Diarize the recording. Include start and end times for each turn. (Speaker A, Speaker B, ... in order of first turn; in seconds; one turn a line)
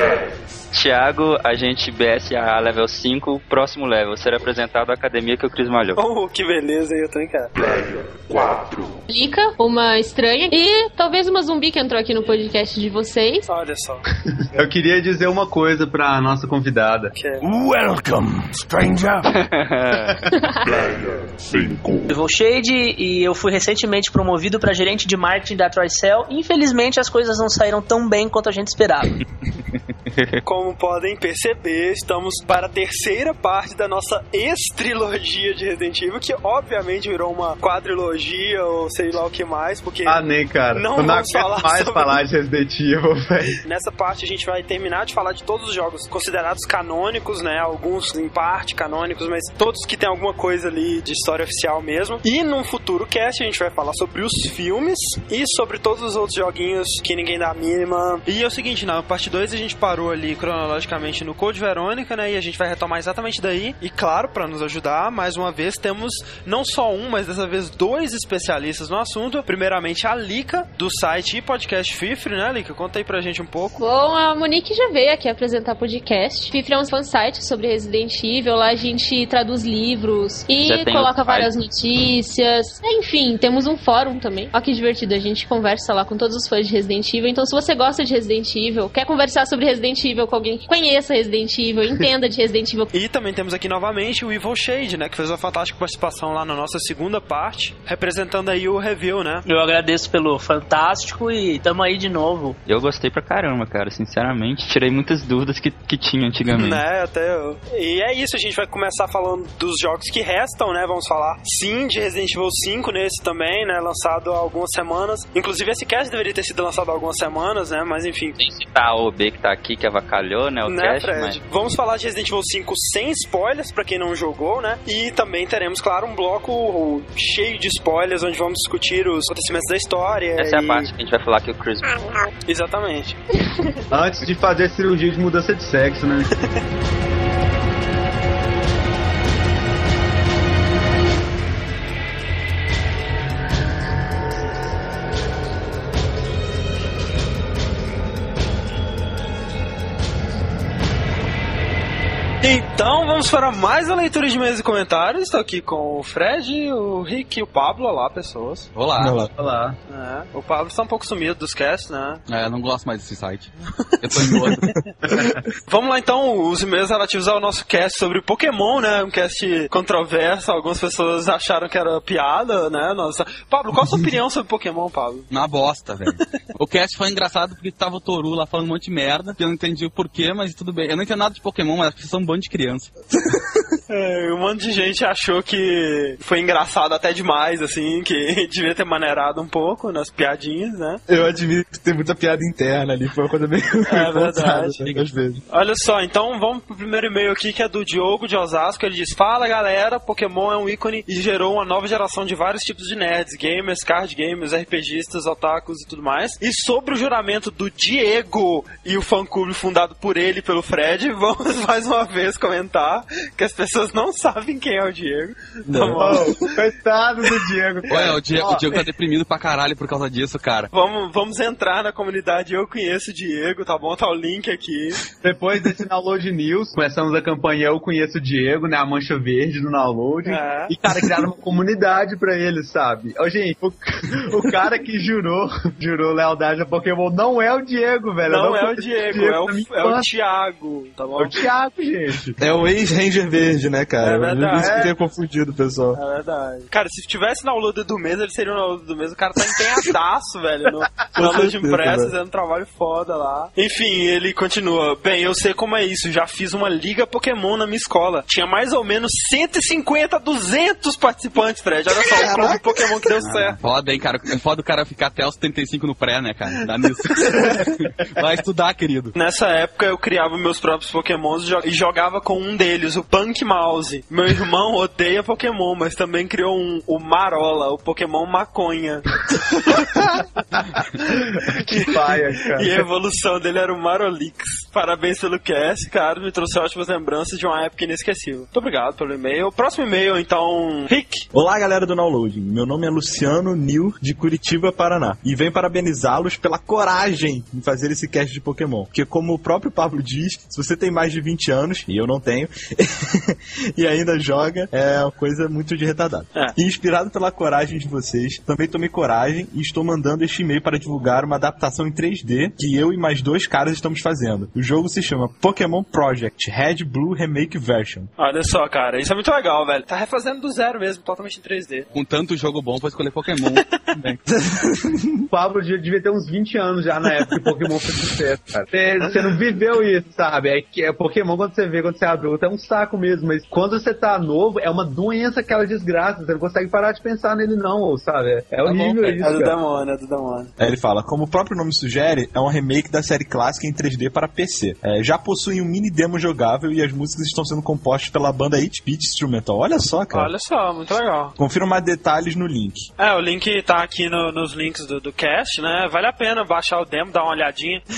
Speaker A: 0.7-6.0
Speaker B: 6.0-8.3
Speaker C: 9.1-13.5
Speaker B: 13.5-14.1
Speaker D: 14.4-17.1
Speaker B: 17.1-17.6
Speaker E: 17.6-19.2
Speaker A: 19.2-20.3
Speaker C: 20.3-20.7
Speaker E: 21.6-22.0
Speaker F: 22.1-29.1
Speaker A: 30.1-30.4
Speaker B: 30.4-42.2
Speaker D: 40.1-43.6
Speaker B: 43.6-73.8
Speaker C: 73.8-92.9
Speaker A: 80.6-81.5
Speaker B: 92.9-99.5
Speaker F: 99.5-102.6
Speaker A: 102.7-106.8
Speaker B: 106.5-118.4
Speaker A: 118.4-121.4
Speaker B: 120.7-130.9
Speaker A: 130.4-132.1
Speaker B: 132.5-133.2
Speaker D: 133.9-136.4
Speaker B: 152.4-158.7
Speaker G: 158.8-159.2
Speaker H: 159.0-159.3
Speaker D: 159.4-159.8
Speaker B: 159.9-162.2
Speaker G: 162.3-164.8
Speaker B: 165.2-175.3
Speaker G: 175.3-182.9
Speaker B: 183.9-191.0
Speaker H: 191.1-195.4
Speaker B: 193.9-195.0
Speaker B: 195.5-216.6
Speaker H: 215.7-216.4
Speaker D: 216.0-218.7
Speaker G: 217.9-220.7
Speaker B: 220.7-225.0
Speaker D: 225.2-240.1
Speaker B: 230.2-230.8
Speaker B: 238.3-241.3
Speaker D: 241.2-242.3
Speaker H: 242.4-246.0
Speaker B: 244.0-244.9
Speaker D: 244.6-244.9
Speaker B: 245.9-263.6
Speaker H: 251.2-252.1
Speaker H: 262.2-262.6
Speaker G: 263.2-269.1
Speaker B: 269.1-280.2
Speaker B: 281.0-291.3
Speaker D: 281.1-282.9
Speaker H: 291.3-318.1
Speaker B: 318.2-321.9
Speaker G: 321.9-324.2
Speaker B: 323.4-323.8
Speaker H: 324.8-325.3
Speaker D: 325.3-339.6
Speaker B: 338.7-340.5
Speaker H: 340.6-350.3
Speaker B: 350.1-351.4
Speaker H: 351.4-352.9
Speaker B: 353.0-357.8